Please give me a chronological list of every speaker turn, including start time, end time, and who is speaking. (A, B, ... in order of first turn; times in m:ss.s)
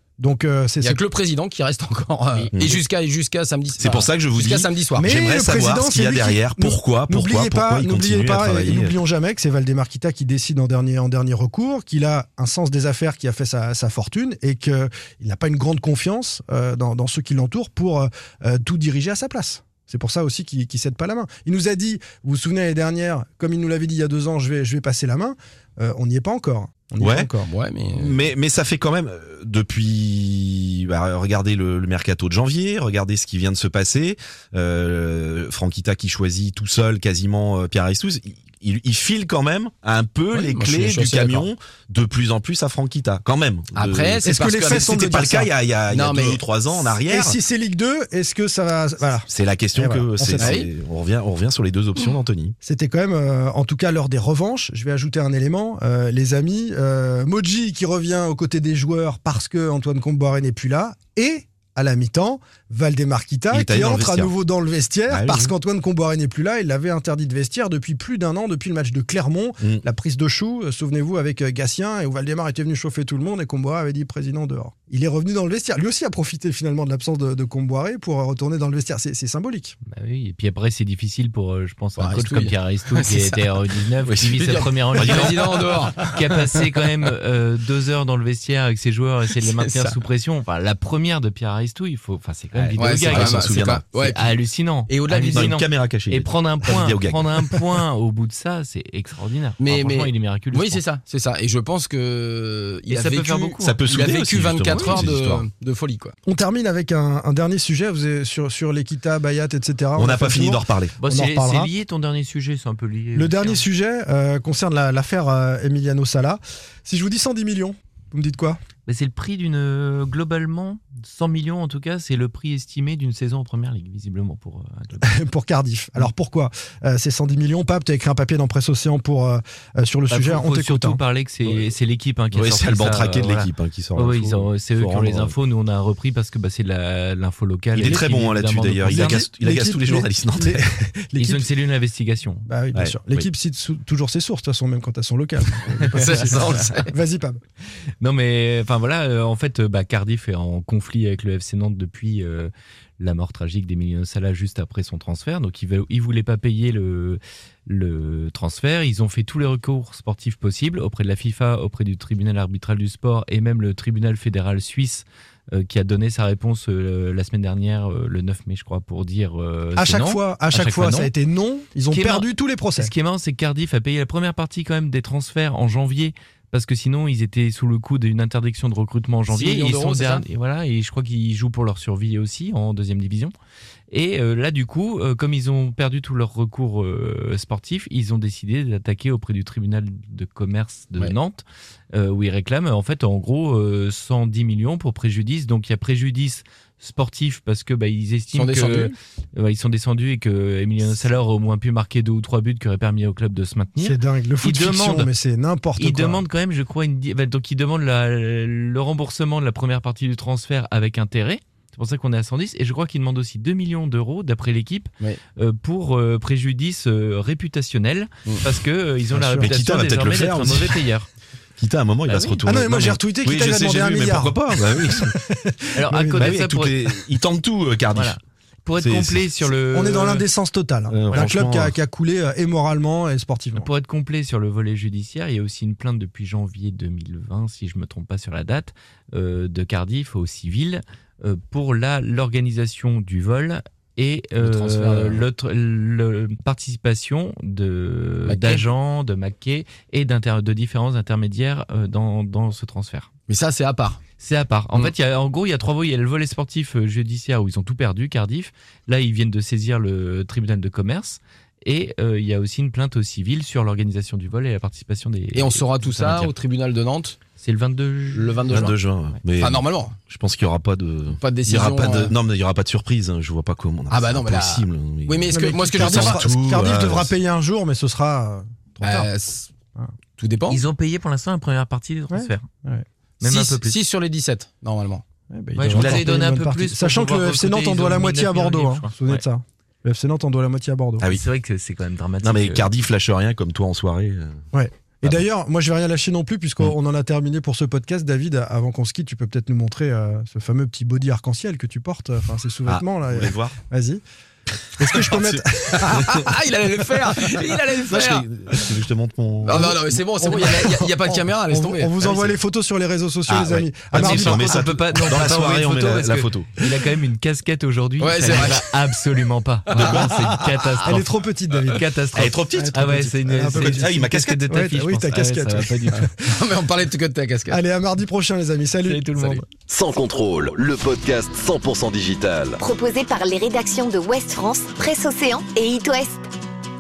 0:00.2-0:01.0 A
0:00.8-0:05.1 B
0:02.5-0:02.8 C
0:03.8-0:09.0 C
0:05.0-0:27.5 A
0:27.0-0:27.3 C
0:27.5-0:28.3 B
0:28.0-0:47.4 C
0:40.3-0:41.5 B
0:43.8-0:45.2 B
0:44.2-0:45.5 A
0:45.9-0:46.4 B
0:46.8-0:50.6 A
0:49.3-0:52.6 C
0:50.4-0:50.7 B
0:52.6-1:19.8 A
1:03.5-1:04.3 C
1:05.1-1:05.5 C
1:19.9-1:40.8 D
1:22.0-1:23.5 B
1:24.1-1:26.2 C
1:24.3-1:26.1 B
1:29.4-1:30.0 B
1:32.5-1:33.8 C
1:32.8-1:34.3 B
1:34.9-1:35.6 B
1:35.3-1:37.6 C
1:39.6-1:46.1 B
1:42.9-1:43.8 D
1:43.6-1:45.4 C
1:44.7-1:45.0 D
1:46.3-1:51.7 A
1:50.0-1:51.0 C
1:51.0-1:53.6 D
1:53.2-1:58.6 A
1:58.9-2:05.1 D
2:05.0-2:11.0 A
2:10.1-2:19.2 D
2:12.3-2:15.3 C
2:17.7-2:20.7 C
2:18.8-2:21.5 A
2:21.2-2:22.5 D
2:22.5-2:27.4 A
2:22.7-2:23.3 C
2:25.9-2:26.9 B
2:28.0-2:51.1 D
2:49.8-2:52.9 A
2:51.9-3:03.4 D
2:59.3-3:00.2 B
3:03.9-3:25.1 D
3:18.3-3:18.9 B
3:23.8-3:26.2 A
3:25.8-3:41.1 D
3:39.1-3:39.5 A
3:39.2-3:40.8 C
3:41.6-3:45.2 C
3:42.1-3:42.5 D
3:42.4-3:46.3 A
3:45.8-3:46.8 D
3:46.1-3:48.2 C
3:47.9-3:50.3 D
3:48.8-3:49.3 C
3:49.7-3:53.7 A
3:50.9-3:51.7 C
3:53.6-4:13.1 D
4:04.4-4:05.2 B
4:08.3-4:08.6 B
4:13.3-4:14.0 B
4:14.2-4:26.3 D
4:25.4-4:27.2 B
4:27.4-4:28.5 D
4:28.1-4:28.8 B
4:28.5-4:37.1 C
4:29.4-4:30.0 B
4:31.2-4:32.1 B
4:33.9-4:36.2 B
4:35.3-4:39.1 A
4:38.8-4:39.5 B
4:40.2-4:40.6 B
4:40.5-4:42.5 D
4:42.1-4:42.9 A
4:43.2-4:43.8 D
4:43.2-4:45.0 B
4:45.3-4:51.0 A
4:45.6-4:49.2 D
4:45.7-4:46.1 C
4:51.0-4:52.7 D
4:52.2-4:54.4 C
4:54.5-5:04.0 A
5:02.7-5:03.6 C
5:04.8-5:06.3 A
5:04.8-5:06.2 C
5:05.8-5:08.3 B
5:07.9-5:10.4 C
5:09.4-5:12.3 B
5:09.5-5:14.8 A
5:13.3-5:16.5 C
5:13.9-5:21.1 D
5:18.0-5:18.9 B
5:19.7-5:20.4 C
5:20.8-5:21.8 A
5:21.7-5:26.1 D
5:22.2-5:24.4 C
5:22.5-5:26.1 A
5:26.2-5:27.6 B
5:27.5-5:29.4 A
5:28.8-5:29.4 D
5:29.7-5:32.6 E
5:32.6-5:36.3 F